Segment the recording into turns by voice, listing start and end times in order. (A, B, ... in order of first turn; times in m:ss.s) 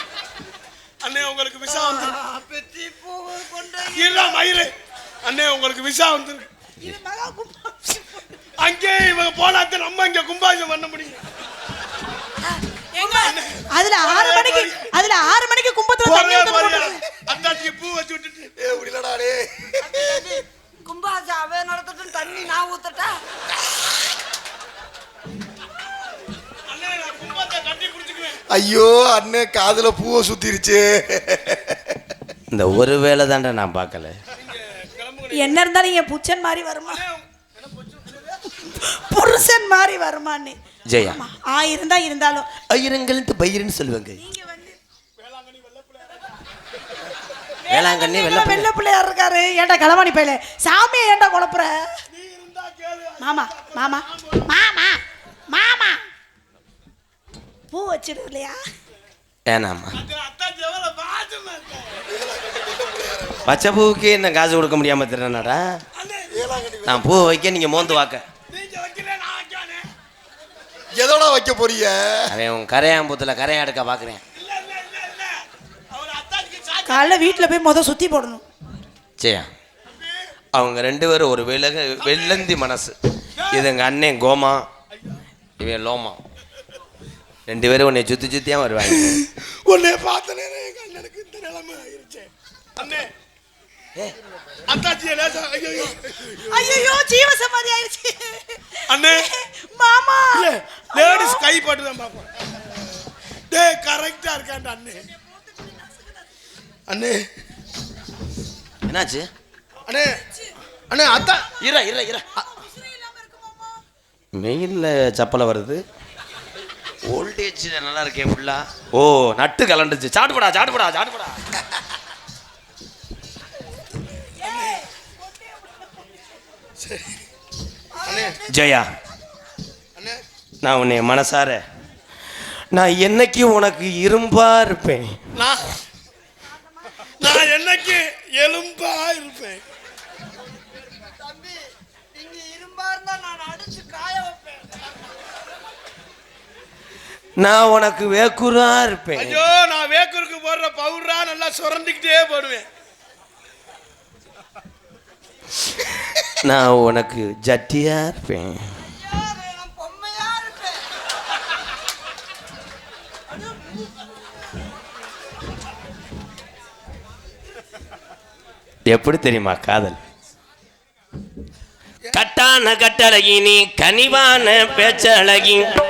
0:01.0-0:02.2 A
0:01.7-0:04.4 B
0:03.9-0:04.7 A
0:05.2-0:06.5 A
0:06.8-0:08.2 C
0:08.6-0:11.2 A
0:12.9-0:17.0 C
0:13.0-0:14.9 A
0:16.0-0:18.5 A
0:18.6-0:20.2 D
0:19.8-0:23.2 B
0:26.7-0:28.4 A
0:28.5-0:32.0 D
0:32.5-0:34.2 E
0:34.3-0:35.6 A
0:35.3-0:37.0 C
0:36.9-0:38.4 A
0:38.5-0:42.5 C
0:40.9-0:41.2 E
0:42.7-0:44.2 E
0:44.2-0:44.8 C
0:45.2-0:46.3 A
0:47.7-0:52.0 C
0:47.7-0:48.7 E
0:52.1-0:54.5 A
0:53.2-0:56.0 C
0:57.7-0:58.6 C
0:59.5-0:59.9 E
0:59.9-1:02.1 A
1:02.1-1:03.4 D
1:03.4-1:05.8 E
1:06.0-1:06.4 A
1:06.3-1:07.2 D
1:06.8-1:08.2 E
1:08.5-1:09.9 A
1:10.9-1:12.3 D
1:12.3-1:14.2 E
1:14.3-1:17.5 A
1:16.9-1:18.4 C
1:19.2-1:19.5 E
1:20.5-1:22.9 E
1:23.4-1:23.7 A
1:23.5-1:24.6 E
1:25.6-1:26.2 E
1:27.5-1:29.1 E
1:28.9-1:33.1 A
1:34.6-1:37.0 A
1:36.5-1:41.4 C
1:38.9-1:39.3 A
1:40.3-1:42.3 A
1:43.5-1:45.0 A
1:46.9-1:47.2 A
1:48.8-1:49.3 E
1:49.9-1:50.2 A
1:50.9-1:51.5 A
1:51.6-1:52.4 E
1:54.3-1:55.8 E
1:57.1-2:01.4 E
2:04.4-2:04.8 C
2:06.8-2:07.2 A
2:08.0-2:08.4 A
2:08.5-2:08.9 E
2:10.0-2:10.2 A
2:10.6-2:11.6 E
2:12.7-2:15.2 E
2:15.4-2:15.7 A
2:17.2-2:19.6 A
2:21.1-2:21.6 B
2:22.1-2:24.9 B
2:27.4-2:29.4 E
2:29.2-2:32.6 A
2:36.4-2:38.8 E
2:39.0-2:40.8 B
2:43.4-2:43.7 B
2:48.9-2:50.0 E
2:52.1-2:55.7 E